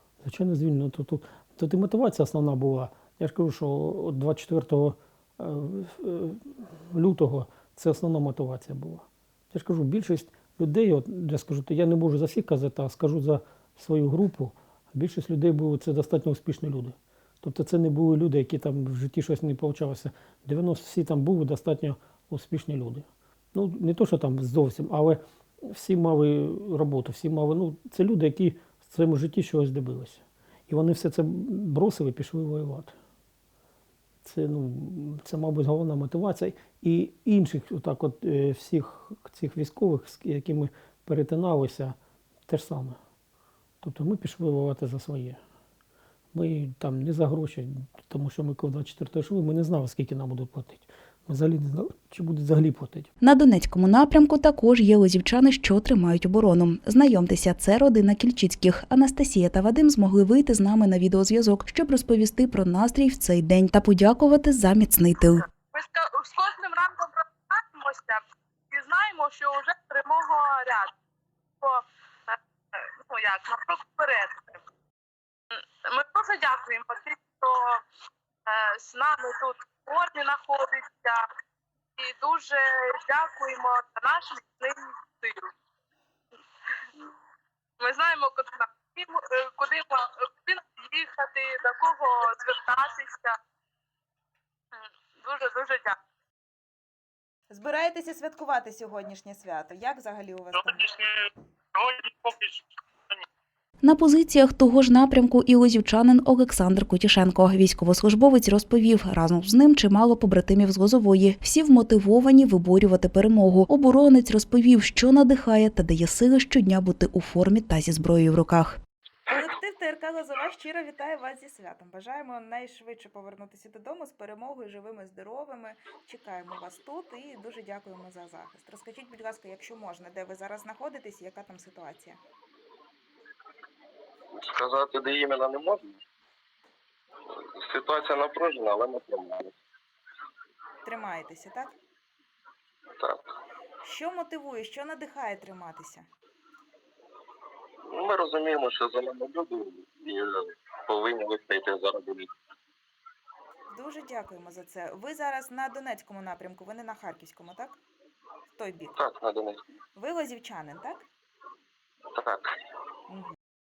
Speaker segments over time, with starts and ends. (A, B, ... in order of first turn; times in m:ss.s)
0:00.2-0:32.9 A
0:34.2-0:41.9 A
0:42.5-0:43.0 A
0:43.8-0:45.4 A
0:46.3-0:53.1 A
0:53.2-1:05.4 B
1:05.5-1:10.9 C
1:11.6-1:14.6 C
1:15.5-1:17.8 C
1:18.5-1:21.2 C
1:22.0-1:25.5 C
1:27.8-1:33.4 C
1:34.7-1:36.0 C
1:37.5-1:40.9 D
1:40.9-1:42.6 C
1:43.8-1:58.8 B
1:59.3-2:12.2 D
2:14.4-2:16.0 E
2:17.5-2:19.5 E
2:20.8-2:21.8 D
2:23.8-2:26.1 D
2:27.9-2:32.3 E
2:33.7-2:37.8 D
2:38.5-2:39.0 D
2:39.0-2:39.6 E
2:40.0-2:41.1 D
2:42.1-2:42.5 E
2:43.1-2:43.4 D